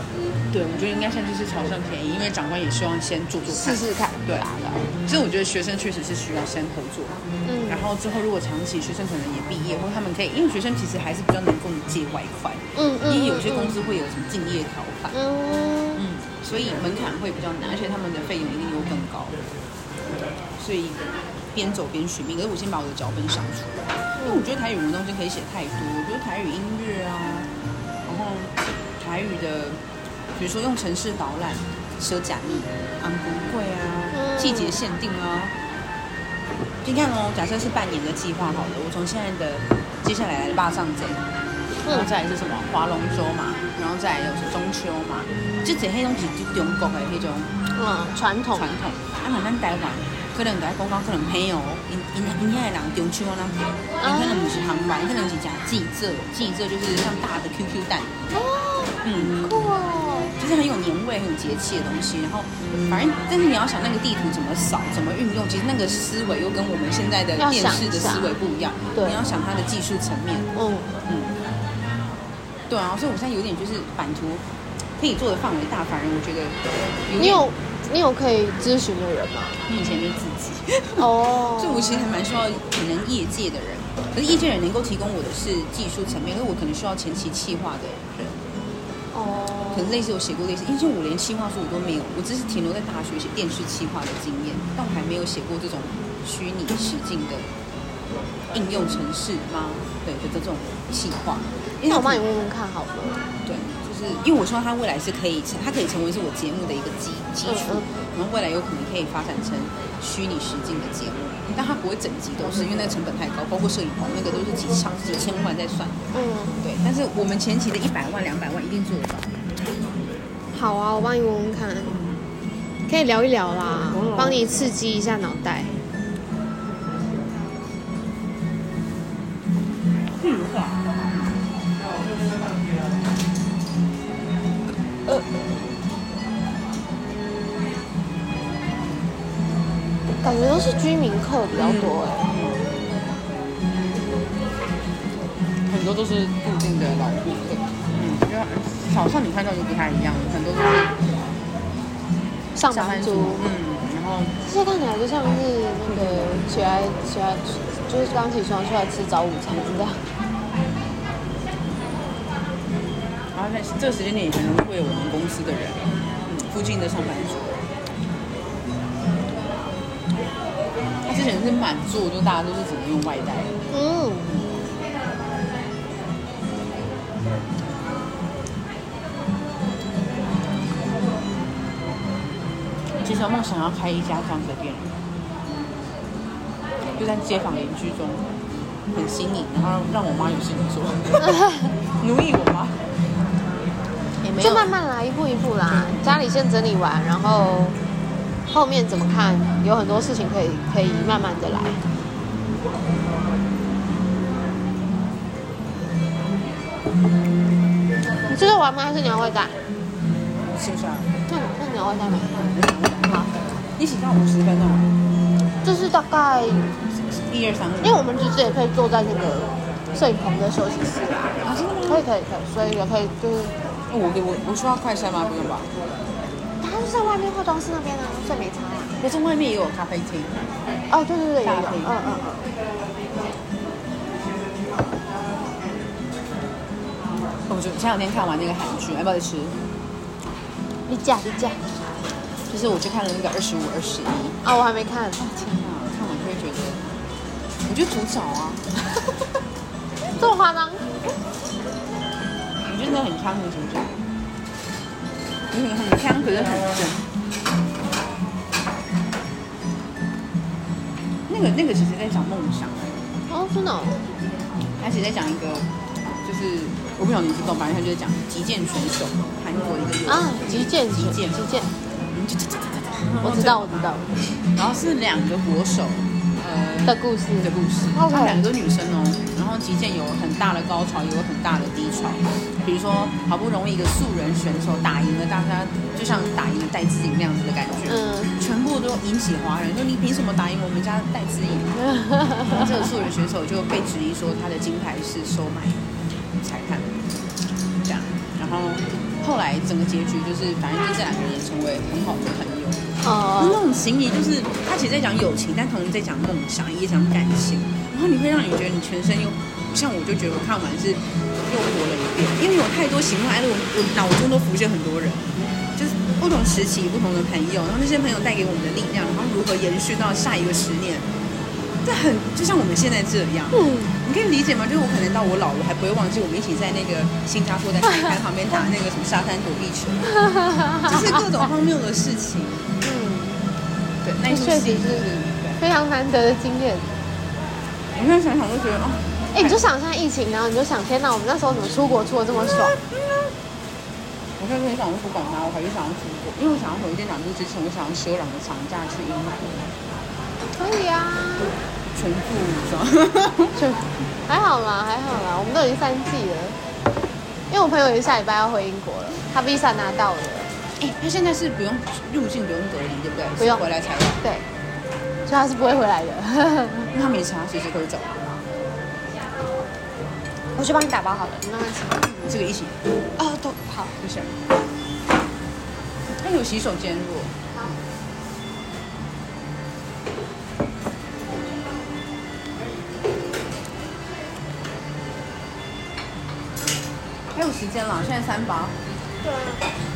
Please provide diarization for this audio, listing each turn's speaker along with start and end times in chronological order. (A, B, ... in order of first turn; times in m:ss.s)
0:00.5-0:15.2 A
0:03.5-0:04.9 B
0:07.4-0:07.9 B
0:12.8-0:13.8 B
0:15.1-0:16.0 B
0:16.0-0:19.4 A
0:20.6-0:27.5 A
0:24.2-0:24.4 B
0:28.1-0:29.8 A
0:30.4-0:35.6 A
0:34.1-0:34.8 B
0:36.8-0:41.2 A
0:41.9-0:47.5 A
0:47.7-0:48.7 B
0:48.6-0:58.2 A
0:54.0-0:54.6 B
0:58.3-1:00.4 B
0:59.0-0:59.6 A
1:00.4-1:10.5 A
1:07.4-1:08.4 B
1:09.0-1:09.2 B
1:10.6-1:11.0 B
1:11.1-1:11.4 A
1:12.7-1:14.4 A
1:15.0-1:17.5 A
1:17.2-1:19.6 B
1:19.7-1:28.4 A
1:21.0-1:22.0 B
1:29.1-1:30.0 B
1:29.7-1:37.5 A
1:38.5-1:42.2 A
1:41.9-1:43.2 B
1:43.4-1:59.4 A
1:47.4-1:47.9 B
1:56.1-1:56.6 B
2:00.5-2:02.0 B
2:01.9-2:02.2 A
2:02.9-2:05.8 B
2:03.9-2:04.5 A
2:10.2-2:11.4 A
2:20.2-2:22.3 B
2:21.6-2:22.6 A
2:25.7-2:31.0 A
2:32.6-2:33.6 B
2:32.7-2:34.4 A
2:34.4-2:40.0 B
2:35.9-2:36.4 A
2:43.3-2:47.6 A
2:51.0-2:53.6 A
2:53.7-2:54.5 B
3:03.0-3:05.0 A
3:07.0-3:08.3 A
3:08.9-3:11.4 A
3:11.2-3:11.7 B
3:12.0-3:12.8 A
3:14.2-3:14.7 A
3:14.4-3:17.8 B
3:18.5-3:21.8 B
3:20.8-3:21.2 A
3:28.3-3:29.6 B
3:30.3-3:31.2 A
3:31.3-3:32.5 B
3:32.4-3:33.2 A
3:33.1-3:33.3 B
3:33.8-3:35.0 A
3:35.6-3:36.7 B
3:37.1-3:38.0 A
3:37.8-3:43.6 B
3:41.4-3:42.1 A
3:43.9-3:45.7 A
3:46.6-3:49.0 B
3:49.0-3:50.5 A
3:50.9-3:52.4 B
3:51.4-3:51.9 A
3:57.5-3:59.6 A
4:00.9-4:01.6 B
4:02.5-4:04.4 A
4:04.4-4:05.6 B
4:05.2-4:06.9 A
4:07.6-4:08.7 A
4:10.2-4:10.9 B
4:12.6-4:14.0 A
4:15.5-4:17.1 A
4:21.3-4:23.1 A
4:23.3-4:24.0 B
4:24.8-4:25.7 A
4:26.2-4:34.0 A
4:30.1-4:31.7 B
4:33.2-4:34.1 B
4:34.6-4:51.8 A
4:36.9-4:38.5 B
4:47.9-4:48.3 B
4:51.9-4:52.7 B
4:52.4-4:55.9 A
4:56.4-4:57.0 A
4:57.8-5:02.8 A
5:03.0-5:03.6 B
5:03.4-5:21.1 A
5:21.8-5:30.2 A
5:23.5-5:23.9 B
5:30.1-5:31.3 B
5:30.8-5:32.6 A
5:32.8-5:33.4 B
5:34.0-5:35.6 A
5:34.2-5:37.0 B
5:37.9-5:39.6 A
5:39.3-5:42.8 B
5:44.4-5:49.7 A
5:50.6-5:51.6 B
5:51.9-5:53.6 A
5:53.6-5:56.6 B
5:57.5-6:00.5 B
6:00.8-6:04.2 A
6:03.4-6:03.7 B
6:04.2-6:04.5 B
6:05.3-6:06.9 B
6:06.9-6:08.2 A
6:10.6-6:12.1 B
6:12.0-6:12.8 A
6:13.2-6:14.0 B
6:14.0-6:14.4 A
6:16.2-6:17.4 A
6:27.3-6:28.8 A
6:29.2-6:29.6 B